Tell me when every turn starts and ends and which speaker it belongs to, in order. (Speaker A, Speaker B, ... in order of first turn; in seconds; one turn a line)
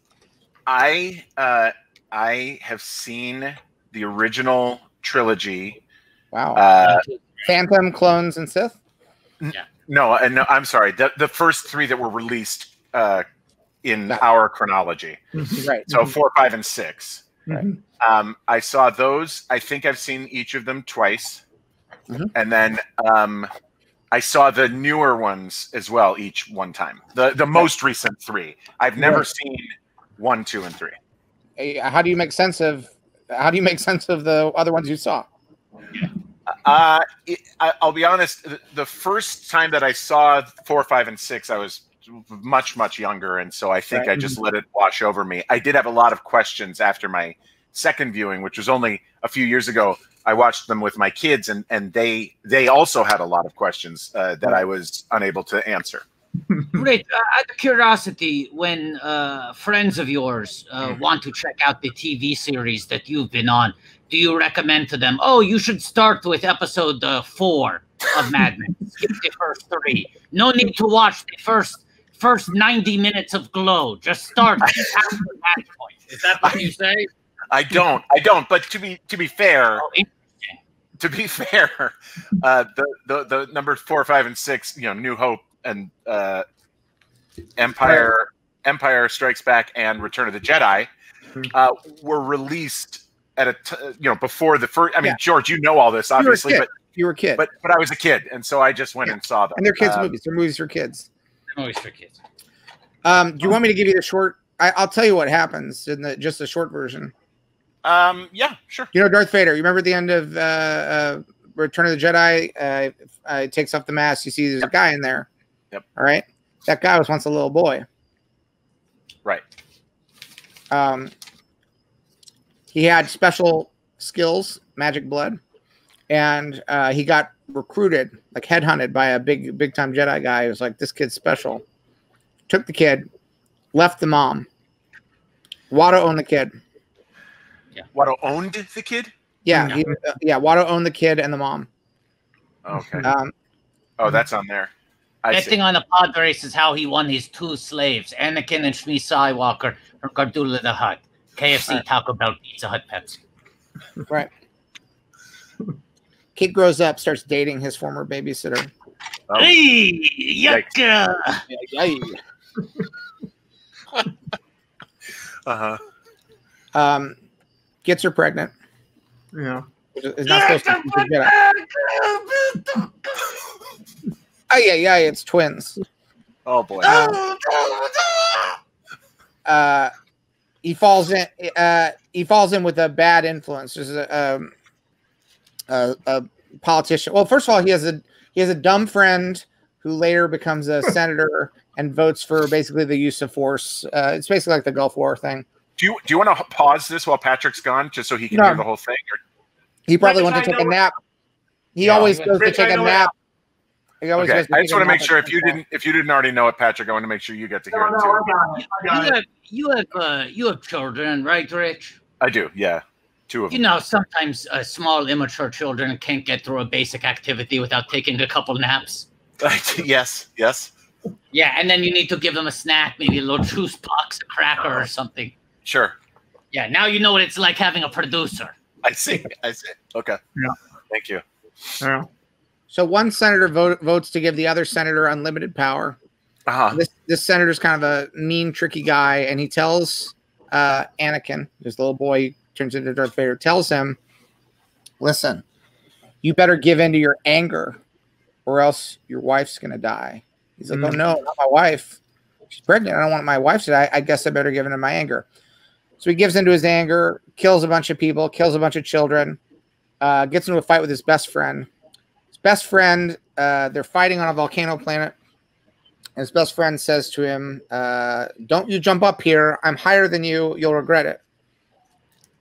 Speaker A: 0.7-5.8
Speaker B: 6.3-6.7
Speaker A: 6.5-7.0
Speaker C: 6.8-7.2
Speaker B: 7.4-8.8
Speaker A: 9.4-13.2
Speaker A: 13.8-15.2
Speaker D: 15.4-16.1
Speaker B: 15.6-15.9
Speaker A: 15.9-17.3
Speaker D: 17.5-17.8
Speaker A: 18.0-21.4
Speaker A: 22.3-23.5
Speaker A: 24.1-31.0
Speaker B: 29.0-29.2
Speaker B: 31.6-35.3
Speaker A: 36.6-56.0
Speaker C: 56.7-77.1
Speaker A: 77.5-79.8
Speaker C: 79.8-80.6
Speaker A: 81.0-86.5
Speaker A: 87.6-90.9
Speaker A: 91.5-96.7
Speaker B: 96.2-97.4
Speaker A: 97.4-100.1
Speaker B: 99.1-101.1
Speaker C: 101.5-102.2
Speaker B: 103.0-107.1
Speaker A: 107.8-108.9
Speaker B: 108.9-115.3
Speaker B: 116.0-117.8
Speaker B: 120.7-121.1
Speaker B: 122.7-125.4
Speaker B: 126.1-131.6
Speaker B: 132.5-133.1
Speaker B: 133.7-134.5
Speaker B: 135.7-136.5
Speaker A: 137.9-139.1
Speaker B: 139.4-141.7
Speaker D: 139.5-139.9
Speaker A: 142.7-143.1
Speaker B: 143.0-143.3
Speaker A: 144.0-144.7
Speaker A: 145.2-145.6
Speaker C: 145.3-153.2
Speaker B: 156.4-158.7
Speaker A: 159.3-159.5
Speaker C: 159.3-161.4
Speaker B: 161.5-162.2
Speaker A: 165.5-165.8
Speaker B: 166.7-167.2
Speaker B: 167.8-168.5
Speaker D: 169.3-169.7
Speaker B: 170.0-171.3
Speaker C: 170.3-173.3
Speaker B: 174.5-175.8
Speaker A: 176.5-176.9
Speaker C: 176.8-178.6
Speaker B: 176.8-177.2
Speaker B: 179.4-179.9
Speaker B: 180.6-184.5
Speaker B: 185.7-195.4
Speaker A: 195.8-199.2
Speaker B: 198.3-198.7
Speaker B: 199.9-201.0
Speaker D: 200.0-200.7
Speaker B: 201.8-203.1
Speaker A: 201.8-202.2
Speaker C: 202.1-203.1
Speaker D: 202.3-202.9
Speaker B: 204.0-205.6
Speaker A: 204.2-208.3
Speaker D: 207.7-209.1
Speaker C: 208.5-212.0
Speaker A: 212.2-213.6
Speaker C: 213.5-219.1
Speaker A: 219.4-220.7
Speaker C: 221.3-225.3
Speaker A: 225.7-225.9
Speaker C: 226.5-228.5
Speaker A: 228.8-230.2
Speaker A: 230.9-231.2
Speaker D: 231.8-232.1
Speaker B: 232.7-236.0
Speaker A: 236.5-236.8
Speaker B: 236.7-244.0
Speaker B: 245.0-245.4
Speaker B: 246.2-247.8
Speaker B: 248.5-252.0
Speaker D: 250.7-251.0
Speaker B: 252.6-255.3
Speaker B: 256.0-259.4
Speaker B: 260.0-261.7
Speaker B: 262.3-265.1
Speaker B: 266.2-271.2